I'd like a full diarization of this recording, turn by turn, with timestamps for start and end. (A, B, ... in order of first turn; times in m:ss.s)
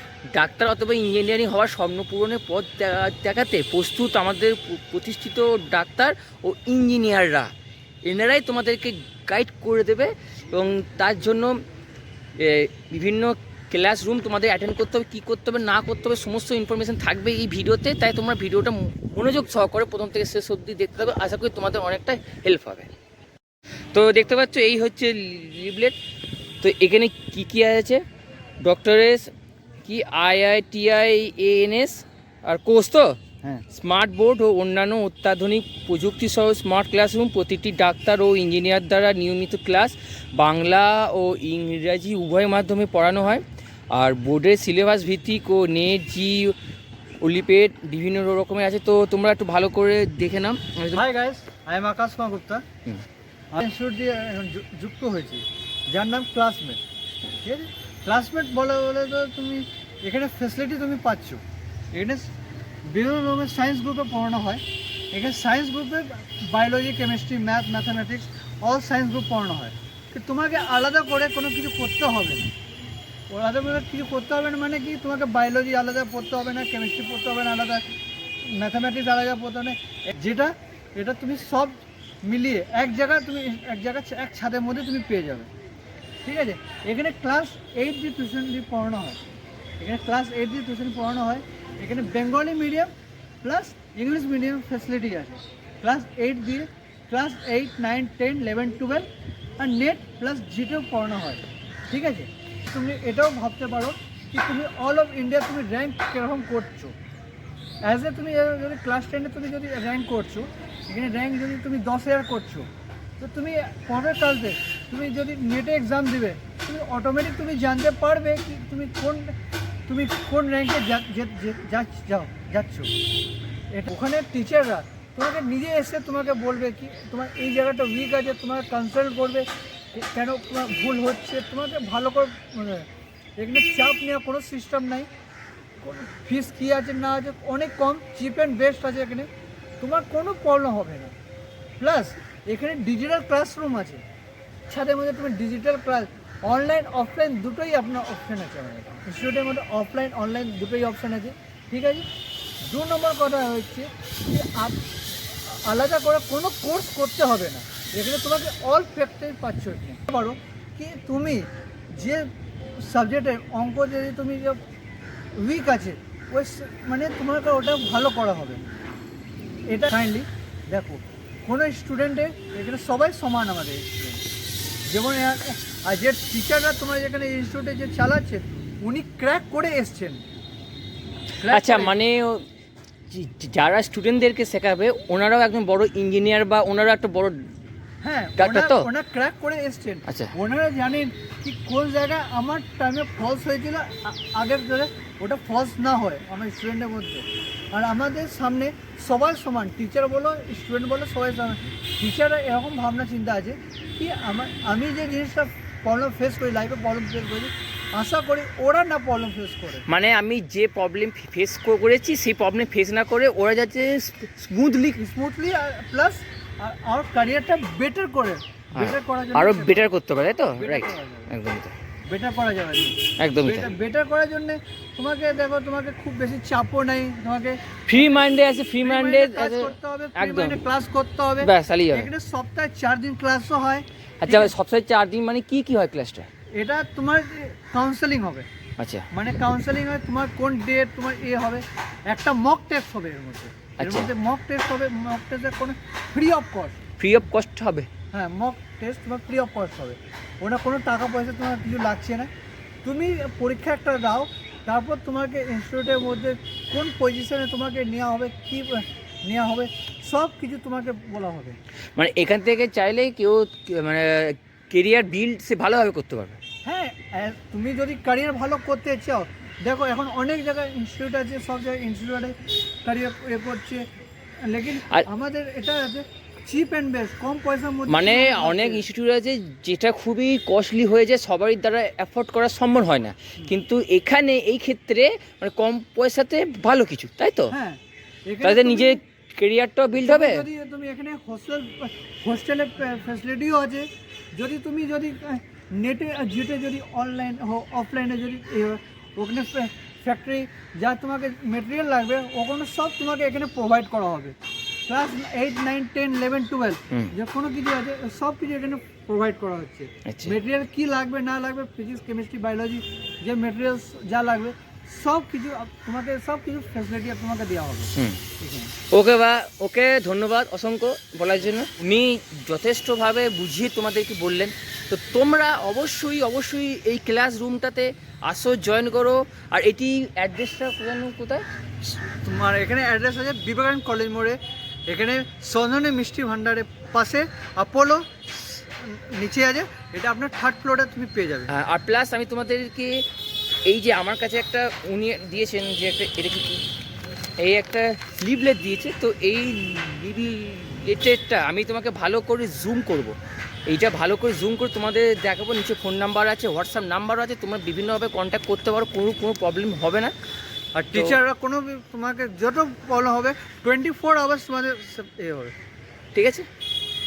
0:00.3-0:07.5 A
0:08.0-0:11.6 A
0:12.4-0:22.9 A
0:23.9-0:26.0 A
0:26.6-0:28.0 A
0:28.6-0:29.3 A
0:29.8-0:33.2 A
0:33.7-0:46.5 A
0:47.2-0:51.0 A
0:50.9-0:52.6 B
0:53.5-0:56.8 B
0:57.4-1:01.4 B
1:01.9-1:02.3 B
1:02.8-1:12.5 B
1:13.3-1:17.8 B
1:18.4-1:25.5 B
1:26.2-1:29.2 B
1:29.8-1:32.9 B
1:33.4-1:46.9 B
1:47.8-1:59.3 B
1:59.9-2:02.9 B
2:03.7-2:12.9 B
2:13.4-2:15.1 B
2:15.8-2:19.3 B
2:19.8-2:21.1 B
2:21.8-2:24.0 B
2:24.7-2:32.0 B
2:32.7-2:44.6 B
2:45.4-2:48.6 B
2:49.7-2:54.2 B
2:54.9-3:00.2 B
3:01.4-3:01.9 B
3:01.4-3:02.4 A
3:03.1-3:07.4 A
3:08.0-3:29.8 B
3:08.4-3:08.9 A
3:10.0-3:10.3 A
3:29.8-3:35.0 A
3:35.0-3:39.9 B
3:38.7-3:41.7 A
3:40.6-3:41.3 B
3:42.1-3:54.5 B
3:43.2-3:43.7 A
3:47.9-3:50.6 A
3:51.4-3:52.1 A
3:54.2-3:56.3 A
3:56.5-3:58.4 B
3:58.8-3:59.1 A
3:59.1-4:06.8 B
4:03.8-4:04.1 A
4:07.0-4:07.9 A
4:08.1-4:12.3 B
4:12.8-4:21.6 B
4:22.0-4:26.4 A
4:26.6-4:33.8 B
4:34.4-4:38.9 B
4:37.9-4:47.5 A
4:47.5-4:49.0 B
4:48.4-4:50.4 A
4:50.0-5:04.4 B
5:04.9-5:18.7 B
5:10.0-5:10.4 A
5:18.0-5:18.2 A
5:18.9-5:31.4 A
5:31.8-5:41.5 B
5:41.5-5:43.0 A
5:43.6-5:46.6 A
5:47.4-5:53.1 A
5:53.7-6:00.1 A
6:00.7-6:05.5 B
6:06.1-6:06.4 A